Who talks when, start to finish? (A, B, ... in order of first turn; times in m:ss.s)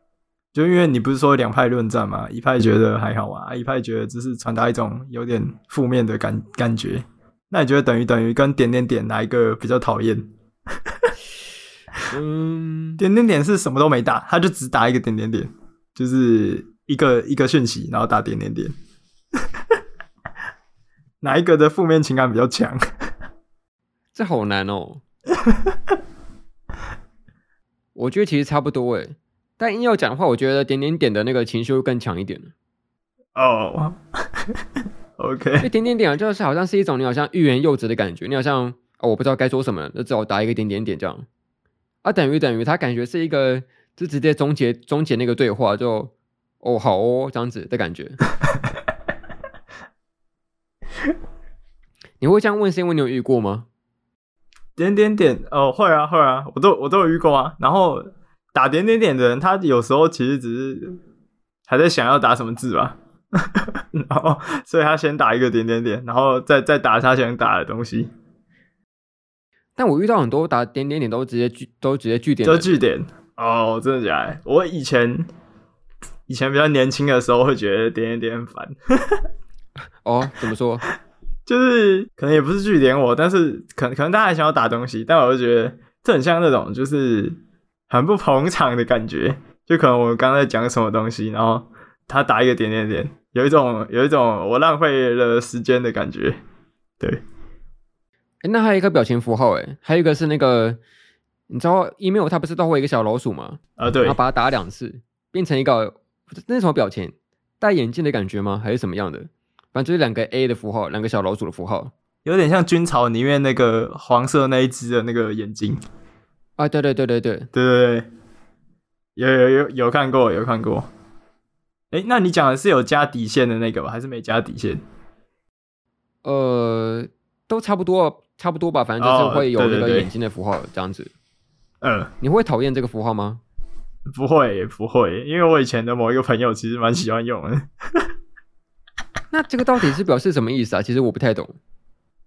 0:00.5-0:10.3 A
0:12.1-0:13.0 B
0:13.0-0:18.7 A
0:21.2-0:23.1 A
0:24.1-0:25.0 B
0:25.4-0:25.7 A
0:27.9-0:32.5 B
0:33.4-0:34.6 A
0:35.2-0:35.7 A
0:35.6-0:41.2 B
0:42.0-0:48.2 B
0:52.2-0:53.6 B
0:54.8-1:01.0 A
1:01.7-1:08.1 A
1:09.8-1:12.8 B
1:12.4-1:15.3 A
1:16.3-1:19.2 A
1:20.0-1:20.8 B
1:21.4-1:27.4 A
1:27.9-1:36.4 A
1:38.4-1:40.8 B
1:41.5-1:51.9 B
1:43.8-1:44.2 A
1:52.2-1:55.8 A
1:56.6-1:57.5 B
1:57.5-1:58.1 A
1:59.2-2:00.9 A
2:01.9-2:04.8 A
2:06.2-2:11.1 B
2:09.0-2:10.1 A
2:11.8-2:12.1 A
2:12.2-2:13.4 B
2:14.1-2:18.1 A
2:19.3-2:21.6 B